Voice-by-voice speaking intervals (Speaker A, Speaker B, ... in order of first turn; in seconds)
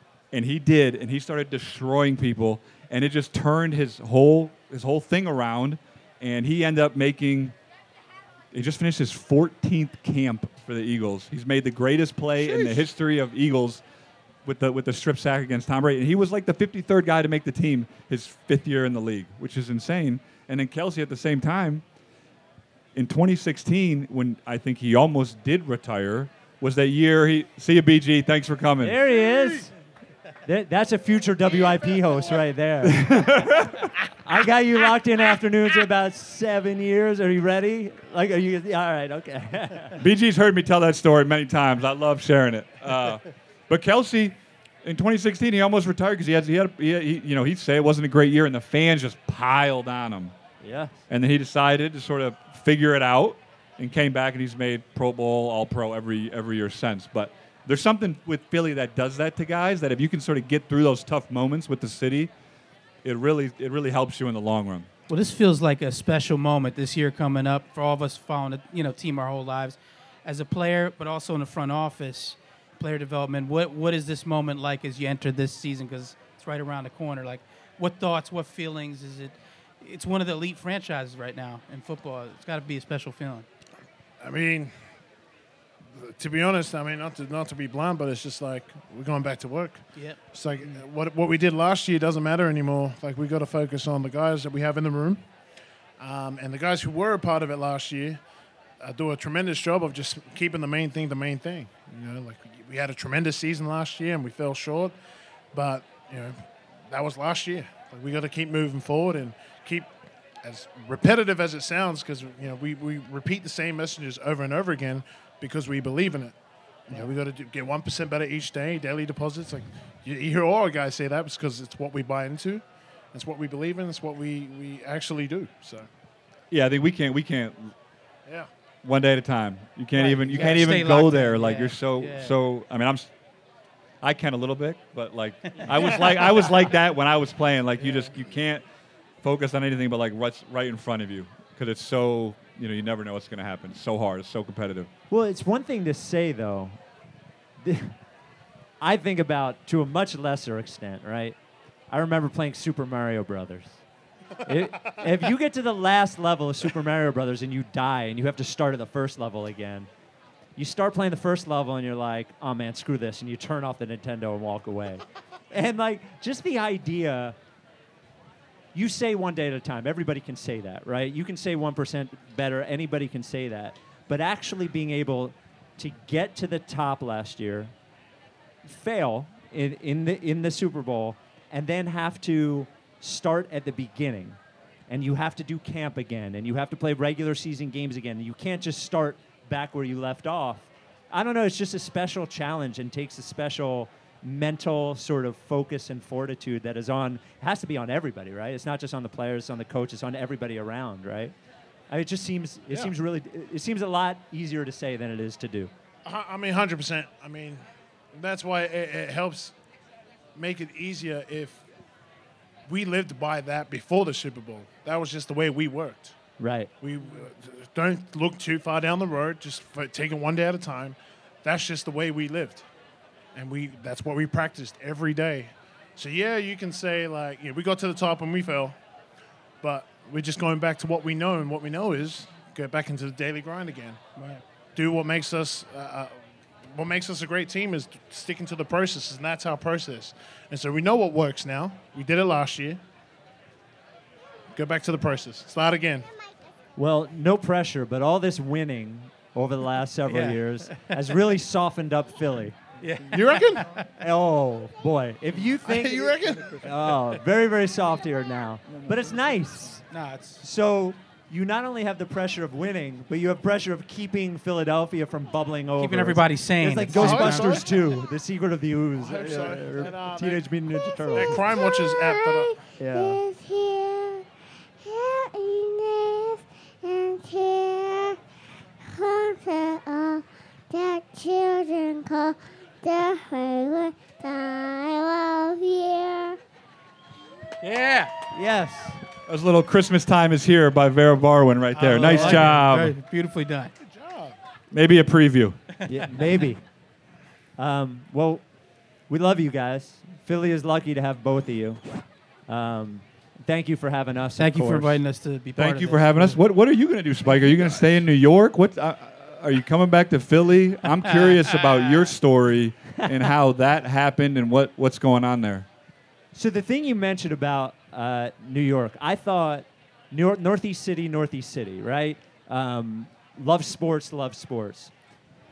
Speaker A: 0.3-7.5, 8.5-13.8, 14.4-21.8, 22.9-29.0, 32.8-34.1, 40.0-50.3, 51.1-62.3, 63.0-64.9, 126.5-127.7, 128.8-133.1, 134.0-138.6, 139.2-144.9, 289.3-292.9, 294.7-295.6, 305.6-315.6
Speaker B: 28.8-29.7, 30.4-40.0, 50.6-51.0, 145.1-146.8, 147.6-147.9, 148.8-151.4, 151.9-153.8, 154.4-159.9, 160.6-167.3, 168.7-177.7, 178.6-184.4, 184.9-201.3, 201.9-205.7, 216.4-216.7, 246.8-252.6, 254.0-259.8, 260.4-271.4, 272.8-273.2, 288.3-289.0, 292.0-292.6, 295.9-296.6, 297.6-298.4, 299.1-301.8, 302.5-305.0, 316.3-324.9
Speaker C: 65.1-83.5, 90.0-90.8, 129.9-132.3, 135.5-136.5, 250.1-250.9, 252.8-253.9, 259.9-260.4, 265.8-267.6, 287.6-288.1, 291.7-293.7, 304.4-306.4
Speaker D: 84.2-84.7, 85.9-95.2, 96.0-98.2, 98.8-105.0, 105.5-109.9, 110.4-116.3, 116.9-125.9, 206.0-207.6, 208.1-209.5, 210.3-211.6, 212.7-216.1, 216.8-222.7, 223.3-228.8, 229.6-236.2, 236.7-242.8, 244.5-246.1, 253.1-253.7, 255.6-256.7, 266.9-267.7, 269.0-270.6, 271.1-272.5, 293.8-294.4
Speaker E: 270.8-274.3, 274.8-278.2, 278.8-286.4